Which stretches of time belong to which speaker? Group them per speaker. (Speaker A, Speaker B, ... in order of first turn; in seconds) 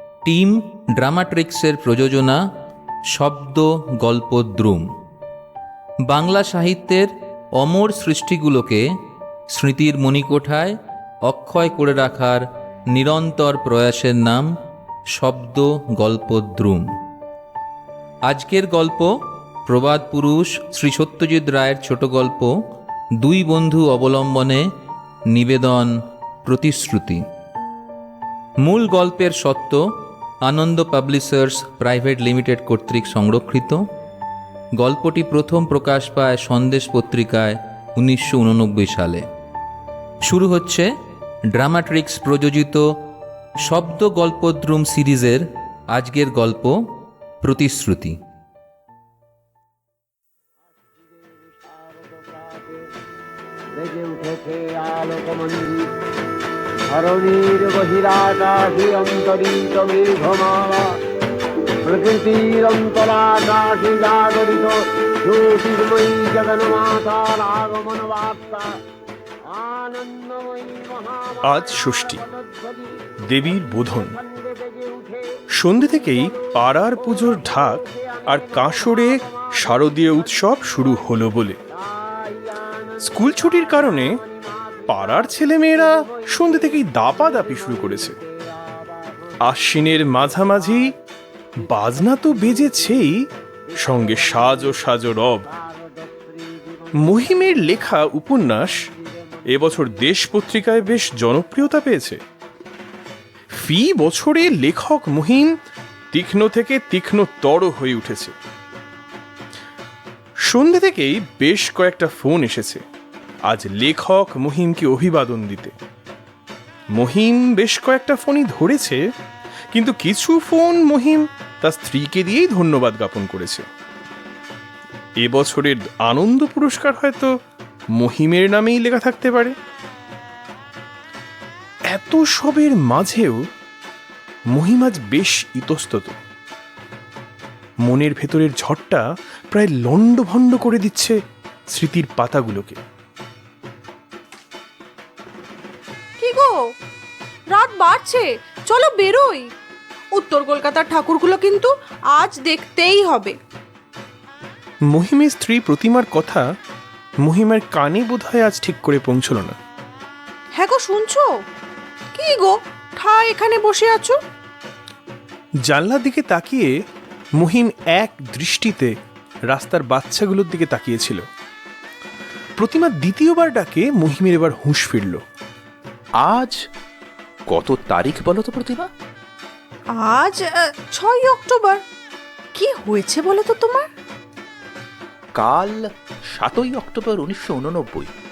Speaker A: 0.2-2.4, 3.1-4.8, 6.1-8.8, 9.5-14.5, 15.1-16.9, 18.3-19.1, 19.7-22.5, 23.2-24.6, 25.3-27.2, 28.6-29.8, 30.4-33.8, 34.8-39.2, 40.2-40.9, 41.5-42.8, 43.6-46.7, 47.4-48.2
Speaker B: 50.9-52.8, 53.8-55.9, 56.9-60.9, 61.8-68.8, 69.5-71.4, 74.4-75.2, 82.1-82.6, 88.8-89.1, 95.6-96.9
Speaker C: 71.4-72.2, 73.3-74.2, 75.5-81.6, 83.0-84.2, 84.9-88.2, 89.4-90.9, 91.6-93.2, 93.8-95.5, 97.0-98.8, 99.5-102.2, 103.5-105.6, 106.1-108.3, 110.5-112.8, 113.5-115.7, 116.9-119.0, 119.7-123.7, 125.2-127.3, 128.0-129.5, 131.9-133.4, 134.5-136.2, 137.8-141.2, 141.7-142.8, 154.9-156.4, 157.2-159.6, 165.7-166.7, 167.4-168.9, 169.5-171.2, 172.6-175.2
Speaker D: 146.2-146.7, 147.5-149.5, 150.1-153.4, 160.6-161.3, 162.1-164.2, 180.0-181.8, 182.5-183.9
Speaker E: 176.2-176.6, 177.5-178.9, 185.3-185.8, 186.3-188.1